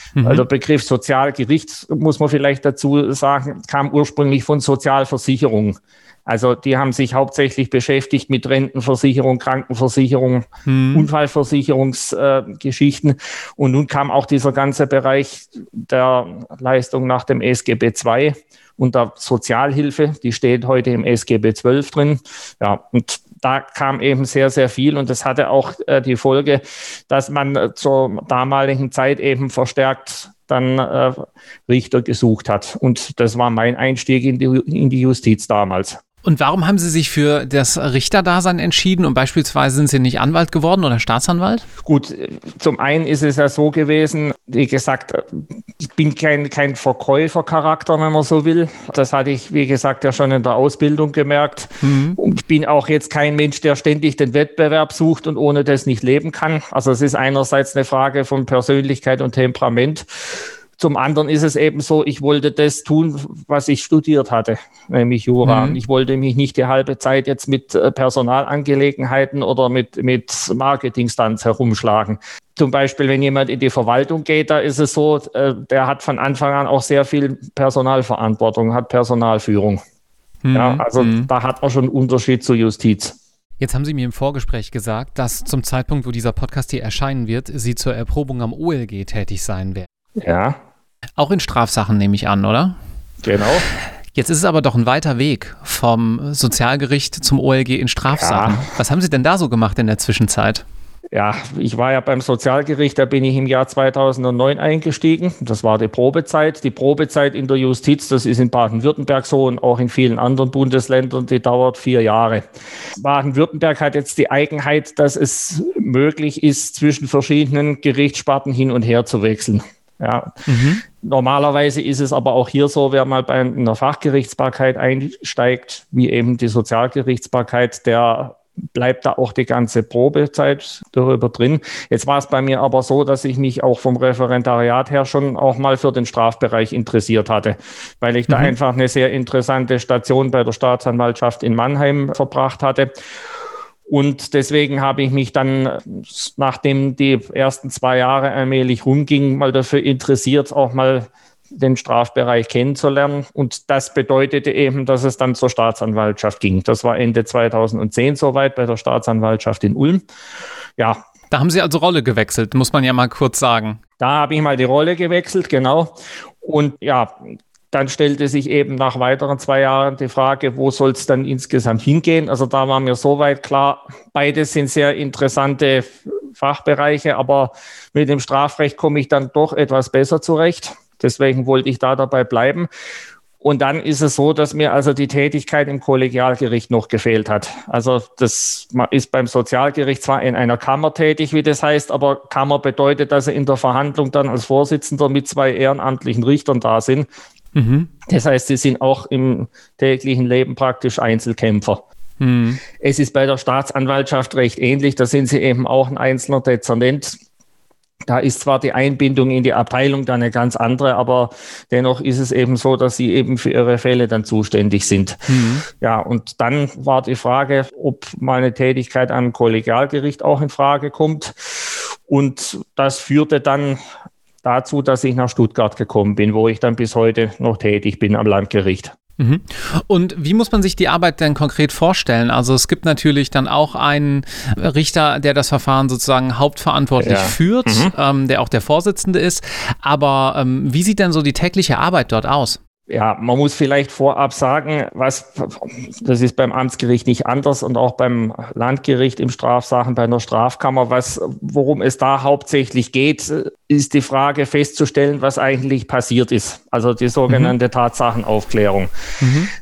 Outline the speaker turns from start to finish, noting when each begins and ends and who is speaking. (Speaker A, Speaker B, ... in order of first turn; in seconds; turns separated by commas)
Speaker A: 0.2-0.5, Speaker B: 0.2-36.0, Speaker A: 10.7-11.1, Speaker A: 36.2-41.7, Speaker B: 41.8-79.8, Speaker A: 51.8-52.2, Speaker A: 65.4-65.8, Speaker A: 80.4-81.3, Speaker B: 80.5-83.2, Speaker A: 83.6-89.9, Speaker B: 90.2-90.6, Speaker A: 91.2-92.8, Speaker B: 93.2-93.7, Speaker A: 94.2-100.7, Speaker B: 98.1-98.7, Speaker B: 101.1-142.9, Speaker A: 120.5-120.8, Speaker A: 138.3-138.5, Speaker B: 143.9-160.1, Speaker A: 161.3-163.8, Speaker B: 164.0-182.7, Speaker B: 183.4-197.1, Speaker A: 197.6-197.9, Speaker B: 198.1-201.8, Speaker A: 202.2-202.6, Speaker B: 202.8-207.2, Speaker B: 208.1-223.8, Speaker A: 215.3-215.7, Speaker B: 224.4-228.9, Speaker A: 229.2-242.6, Speaker B: 237.0-237.9, Speaker B: 242.9-258.9, Speaker A: 257.3-257.5, Speaker A: 259.2-259.5